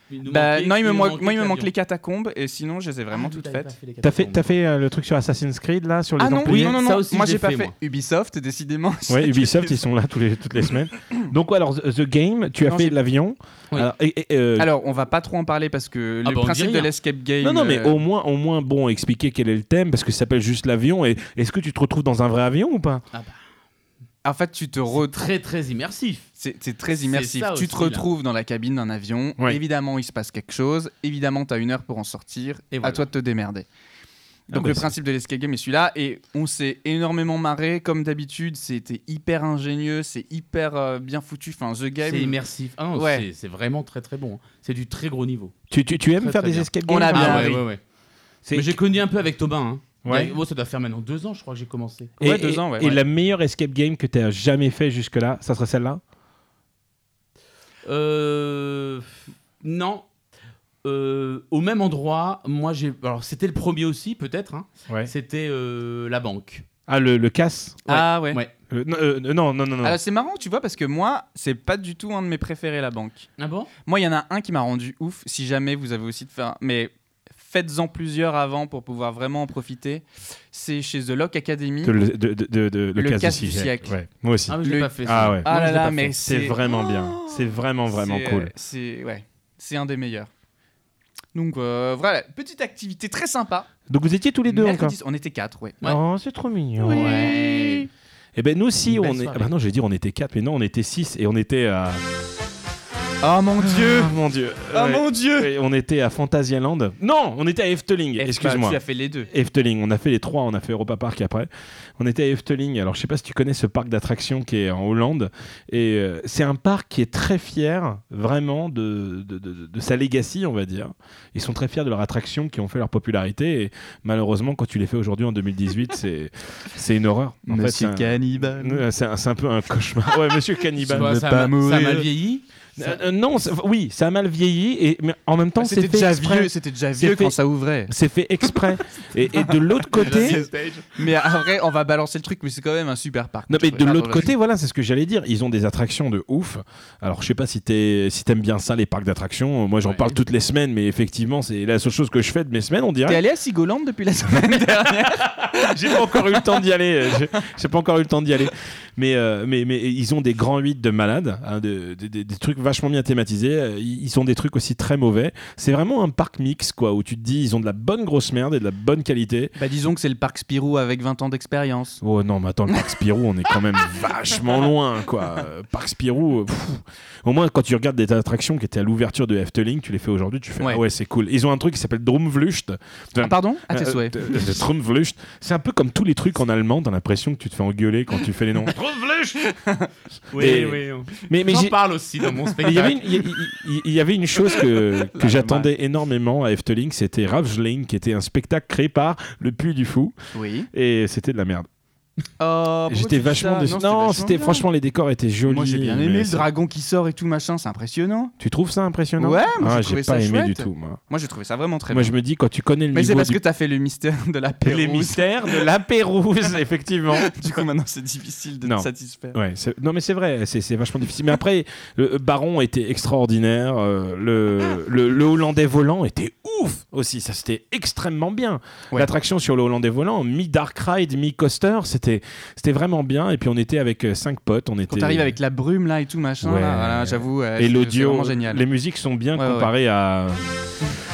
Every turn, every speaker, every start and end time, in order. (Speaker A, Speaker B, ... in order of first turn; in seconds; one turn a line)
Speaker A: 0.1-1.7
Speaker B: 0.3-3.7
Speaker A: 3.1-4.5
Speaker C: 4.0-6.8
Speaker B: 6.2-9.8
Speaker A: 6.4-7.7
Speaker C: 9.1-14.7
Speaker B: 12.6-12.9
Speaker B: 14.6-18.0
Speaker A: 16.2-16.9
Speaker C: 17.4-23.0
Speaker A: 23.1-23.4
Speaker B: 24.2-25.2
Speaker A: 24.9-26.3
Speaker B: 26.4-33.6
Speaker A: 26.9-28.0
Speaker A: 32.7-33.0
Speaker B: 34.5-42.4
Speaker C: 34.5-34.9
Speaker A: 42.0-45.5
Speaker B: 42.9-43.2
Speaker C: 45.7-47.6
Speaker A: 46.2-47.8
Speaker B: 46.9-47.6
Speaker C: 48.4-48.8
Speaker A: 48.5-52.1
Speaker C: 50.0-50.3
Speaker C: 52.2-56.0
Speaker B: 52.2-53.0
Speaker A: 57.9-60.1
Speaker A: 60.8-66.7
Speaker C: 66.9-68.0
Speaker B: 67.9-68.4
Speaker A: 67.9-68.5
Speaker C: 68.7-70.0
Speaker B: 69.8-73.3
Speaker A: 73.4-73.7
Speaker B: 73.8-82.0
Speaker C: 81.8-88.5
Speaker B: 83.0-83.9
Speaker A: 84.5-85.9
Speaker B: 84.6-90.3
Speaker B: 91.3-93.7
Speaker C: 93.9-95.0
Speaker B: 94.5-95.8
Speaker C: 95.8-97.3
Speaker B: 96.8-97.9
Speaker A: 96.9-97.8
Speaker C: 98.3-102.0
Speaker A: 98.9-99.5
Speaker B: 103.2-104.1
Speaker C: 103.6-131.2
Speaker B: 104.7-105.5
Speaker B: 108.2-109.3
Speaker B: 127.5-128.8
Speaker A: 130.9-133.0
Speaker B: 130.9-132.1
Speaker C: 132.8-137.3
Speaker B: 135.6-137.9
Speaker C: 137.9-140.4
Speaker B: 139.4-144.3
Speaker A: 139.9-141.0
Speaker C: 143.5-153.2
Speaker B: 153.1-156.5
Speaker C: 155.5-169.5
Speaker B: 169.6-172.0
Speaker C: 172.0-189.4
Speaker B: 183.2-184.7
Speaker B: 189.4-189.9
Speaker A: 190.3-193.0
Speaker C: 190.3-191.8
Speaker C: 192.6-200.2
Speaker B: 194.4-195.7
Speaker B: 200.3-200.7
Speaker C: 200.7-201.7
Speaker B: 202.4-204.6
Speaker C: 202.9-206.4
Speaker B: 205.4-208.3
Speaker C: 208.4-211.0
Speaker B: 209.2-212.1
Speaker C: 211.9-213.4
Speaker B: 212.9-215.7
Speaker C: 214.6-217.3
Speaker B: 217.1-219.4
Speaker C: 218.6-235.3
Speaker B: 234.9-238.6
Speaker C: 236.4-240.6
Speaker B: 239.3-239.7